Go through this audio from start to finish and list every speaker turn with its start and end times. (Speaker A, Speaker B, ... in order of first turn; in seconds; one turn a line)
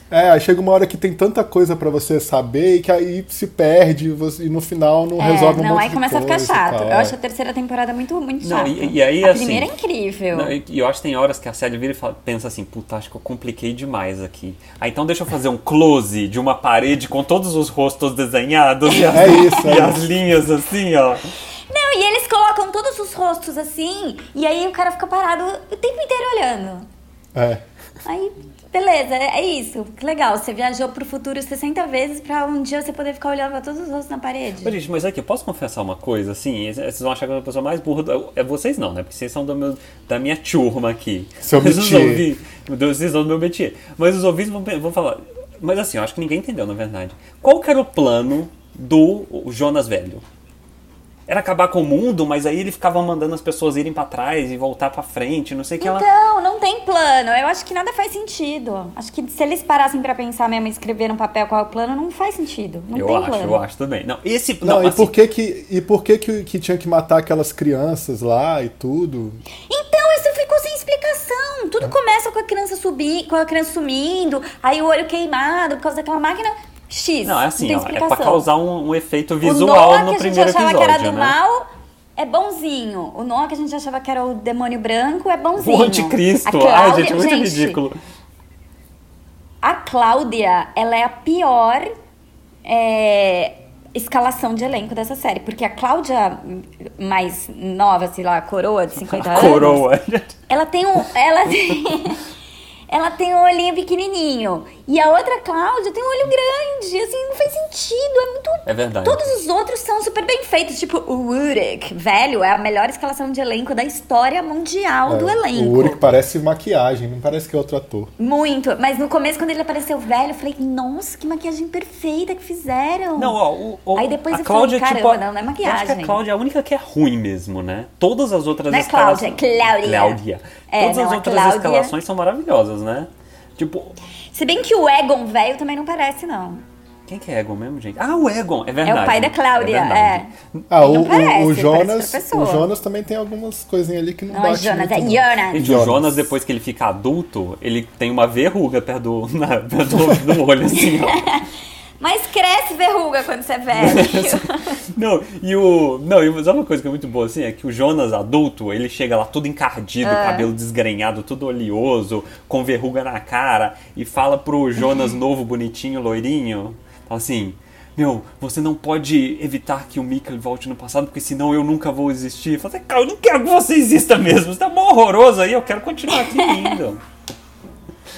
Speaker A: 0.1-7.2
Speaker B: 5.2-10.5
Speaker C: 8.4-9.7
Speaker C: 10.3-21.2
Speaker B: 18.9-19.6
Speaker A: 19.1-20.0
Speaker B: 21.7-26.9
Speaker A: 27.3-27.6
Speaker B: 28.1-34.8
Speaker C: 34.6-50.2
Speaker A: 41.4-42.2
Speaker C: 51.3-56.1
Speaker B: 55.8-63.6
Speaker C: 62.9-65.2
Speaker A: 64.6-69.4
Speaker B: 69.7-78.5
Speaker C: 77.2-81.4
Speaker B: 79.4-81.7
Speaker B: 82.2-87.8
Speaker C: 85.6-88.0
Speaker B: 89.6-91.9
Speaker B: 92.7-99.9
Speaker C: 99.1-100.4
Speaker B: 100.5-102.2
Speaker B: 102.9-116.0
Speaker C: 108.7-109.3
Speaker A: 115.1-118.1
Speaker B: 118.2-123.4
Speaker C: 123.2-134.0
Speaker B: 124.0-126.2
Speaker B: 128.7-131.9
Speaker B: 134.3-136.6
Speaker C: 137.1-140.7
Speaker B: 138.8-142.7
Speaker A: 140.7-146.3
Speaker B: 144.3-145.7
Speaker C: 145.5-151.2
Speaker B: 151.1-151.4
Speaker B: 152.0-154.8
Speaker C: 153.8-177.0
Speaker B: 160.0-160.5
Speaker B: 176.1-176.8